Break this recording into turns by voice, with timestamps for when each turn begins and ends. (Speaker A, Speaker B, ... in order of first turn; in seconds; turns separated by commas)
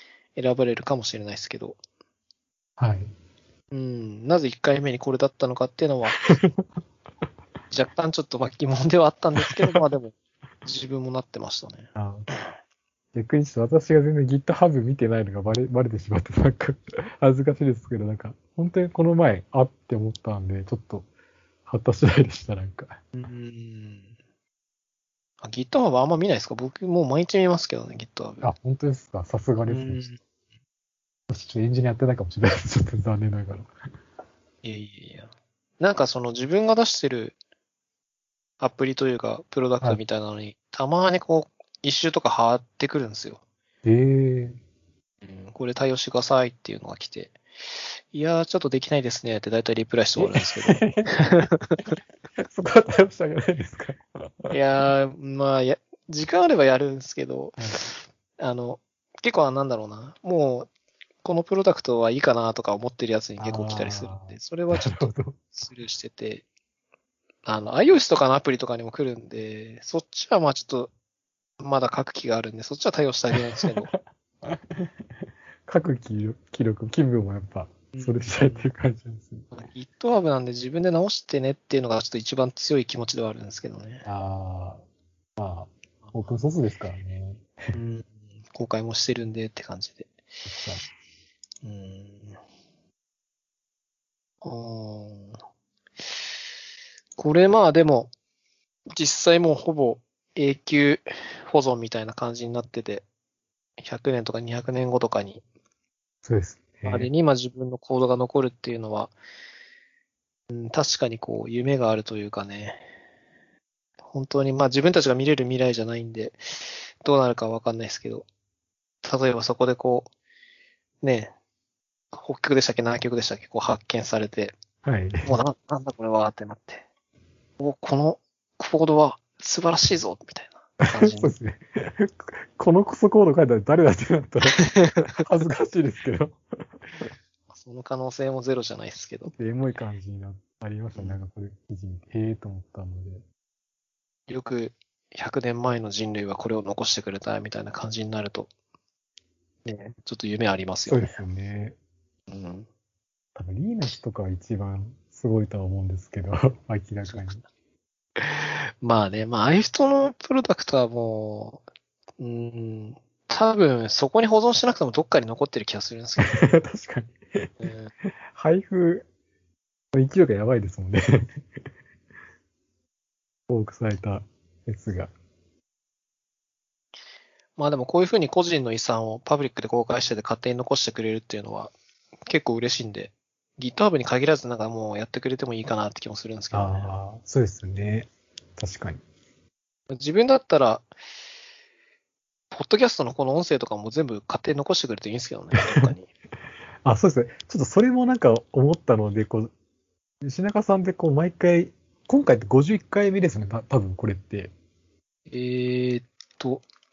Speaker A: 0.3-1.8, Speaker B: 2.8-3.1, Speaker A: 3.7-6.3, Speaker B: 6.1-6.7, Speaker A: 7.7-11.9, Speaker B: 9.5-9.8, Speaker B: 12.0-12.3, Speaker B: 13.1-21.1, Speaker B: 21.7-23.0, Speaker A: 23.1-24.1, Speaker A: 25.4-28.4, Speaker B: 28.4-30.1, Speaker A: 29.6-30.2, Speaker B: 31.3-33.7, Speaker A: 34.6-35.3, Speaker A: 35.8-37.4, Speaker A: 38.6-43.4, Speaker B: 43.8-44.6, Speaker A: 45.2-47.4, Speaker A: 48.1-51.9, Speaker B: 50.2-51.5, Speaker B: 52.4-54.5, Speaker A: 54.5-60.7, Speaker A: 61.2-66.5, Speaker B: 63.4-65.5, Speaker A: 67.5-70.9, Speaker A: 71.6-73.9, Speaker B: 73.6-74.9, Speaker B: 75.7-79.5, Speaker A: 77.9-78.7, Speaker A: 79.5-84.0, Speaker B: 84.0-84.8, Speaker B: 85.4-87.8, Speaker A: 87.7-90.1, Speaker B: 90.5-90.9, Speaker A: 91.6-92.4, Speaker A: 94.4-95.4, Speaker A: 97.2-98.1, Speaker A: 98.9-103.0, Speaker A: 103.8-105.4, Speaker B: 106.2-107.1, Speaker A: 106.9-109.1, Speaker A: 110.5-112.8, Speaker A: 114.1-118.3, Speaker A: 119.0-120.1, Speaker A: 121.0-121.3, Speaker A: 122.1-124.5, Speaker B: 124.8-125.3, Speaker A: 125.2-126.8, Speaker A: 127.6-131.3, Speaker B: 130.8-134.6, Speaker A: 134.5-135.2, Speaker B: 135.2-136.4, Speaker A: 137.5-139.3, Speaker B: 139.4-143.2, Speaker A: 144.3-148.5, Speaker A: 149.7-151.2, Speaker B: 150.9-151.8, Speaker A: 152.3-152.7, Speaker B: 153.3-157.4, Speaker A: 157.1-157.4, Speaker A: 158.2-161.6, Speaker A: 162.2-166.6, Speaker B: 166.2-167.7, Speaker A: 167.6-167.9, Speaker B: 168.3-169.1, Speaker B: 169.9-171.2, Speaker B: 173.5-175.1, Speaker A: 177.6-181.7, Speaker A: 182.3-186.9, Speaker B: 186.5-189.0, Speaker A: 189.9-190.9, Speaker A: 192.5-196.1, Speaker B: 196.8-199.5, Speaker B: 200.2-204.5, Speaker A: 205.3-206.7